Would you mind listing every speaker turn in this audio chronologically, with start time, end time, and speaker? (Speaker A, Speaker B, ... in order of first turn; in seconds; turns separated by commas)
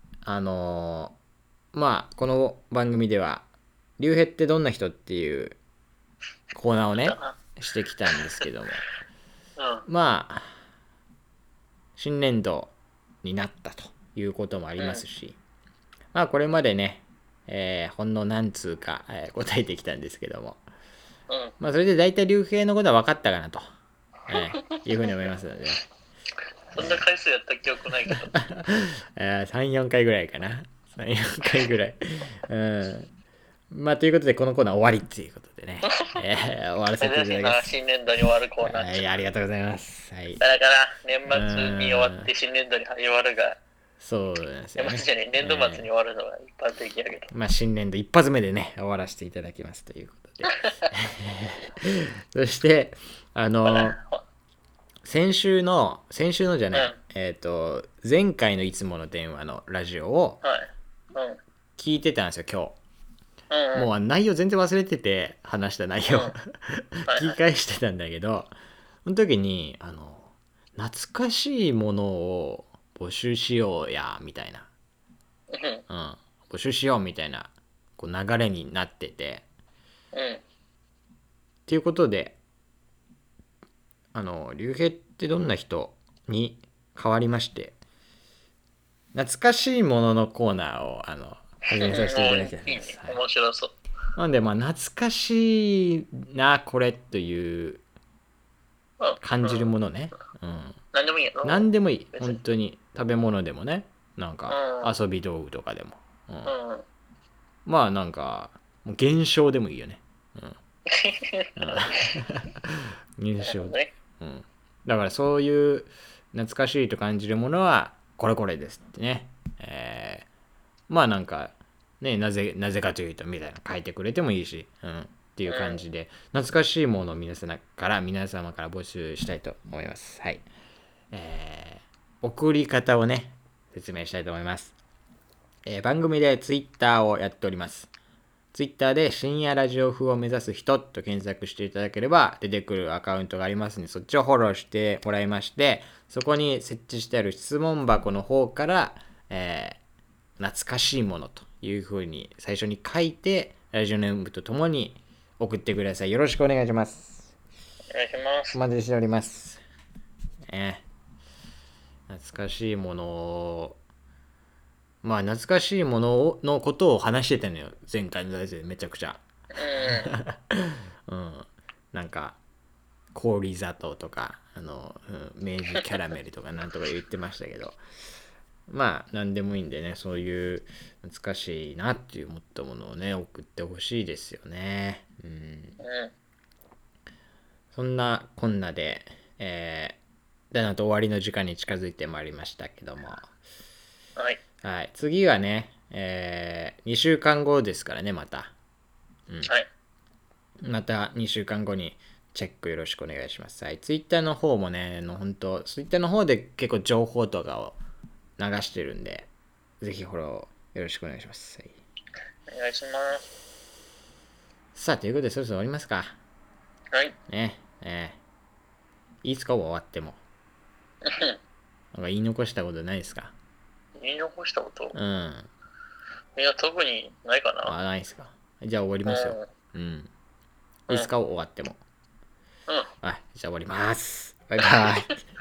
Speaker A: 0.2-1.2, Speaker A: 1.7-3.5, Speaker A: 4.0-5.6, Speaker A: 6.5-8.8, Speaker B: 7.0-7.4, Speaker B: 9.6-9.9, Speaker A: 9.9-10.5, Speaker A: 12.0-15.4, Speaker B: 14.8-15.0, Speaker A: 16.1-20.6, Speaker B: 21.3-21.5, Speaker A: 21.6-23.6, Speaker A: 24.3-25.8, Speaker B: 26.7-28.3, Speaker A: 26.8-27.0, Speaker A: 28.3-33.1, Speaker A: 33.7-37.8, Speaker B: 35.9-36.1, Speaker B: 37.0-39.2, Speaker A: 38.6-40.4, Speaker B: 40.4-43.6, Speaker A: 41.3-42.3, Speaker A: 44.0-45.9, Speaker B: 44.8-47.3, Speaker A: 47.3-54.0, Speaker B: 53.6-54.2, Speaker A: 55.0-60.4, Speaker B: 60.4-61.4, Speaker A: 61.8-62.8, Speaker B: 63.5-63.9, Speaker A: 63.7-68.5, Speaker B: 66.1-66.3, Speaker B: 67.1-67.4, Speaker A: 69.1-74.7, Speaker B: 75.5-75.8, Speaker A: 75.9-79.5, Speaker B: 80.1-80.4, Speaker A: 81.7-82.4, Speaker A: 84.1-87.8, Speaker A: 89.1-93.2, Speaker B: 91.8-93.7, Speaker A: 94.2-97.8, Speaker B: 99.0-99.7, Speaker A: 99.2-100.8, Speaker B: 100.9-102.4, Speaker A: 101.4-106.5, Speaker B: 104.5-104.9, Speaker B: 106.5-106.8, Speaker A: 107.7-110.6, Speaker B: 110.9-112.0, Speaker A: 111.6-120.3, Speaker B: 113.4-113.9, Speaker A: 120.9-130.5, Speaker B: 125.5-125.8, Speaker A: 131.1-134.8, Speaker A: 135.7-137.9, Speaker A: 138.5-149.8, Speaker A: 150.4-157.3, Speaker B: 157.9-158.6, Speaker A: 158.5-159.6, Speaker A: 160.5-160.8, Speaker A: 162.1-163.8, Speaker A: 165.0-169.2, Speaker B: 169.5-170.2, Speaker A: 169.8-172.4, Speaker A: 173.1-177.8, Speaker A: 178.7-185.8, Speaker B: 185.8-186.1, Speaker A: 187.7-190.0, Speaker A: 190.5-193.3, Speaker A: 194.6-198.5, Speaker A: 200.6-207.8, Speaker A: 208.4-209.3, Speaker A: 209.8-211.7, Speaker B: 212.5-213.2, Speaker A: 214.8-216.2, Speaker A: 217.3-218.2, Speaker A: 219.2-220.2, Speaker B: 221.0-221.4, Speaker A: 221.9-223.3, Speaker B: 224.0-225.0, Speaker A: 224.9-225.5, Speaker B: 226.4-227.8, Speaker A: 227.7-230.1, Speaker B: 229.1-229.5, Speaker A: 230.9-231.8, Speaker A: 233.0-235.2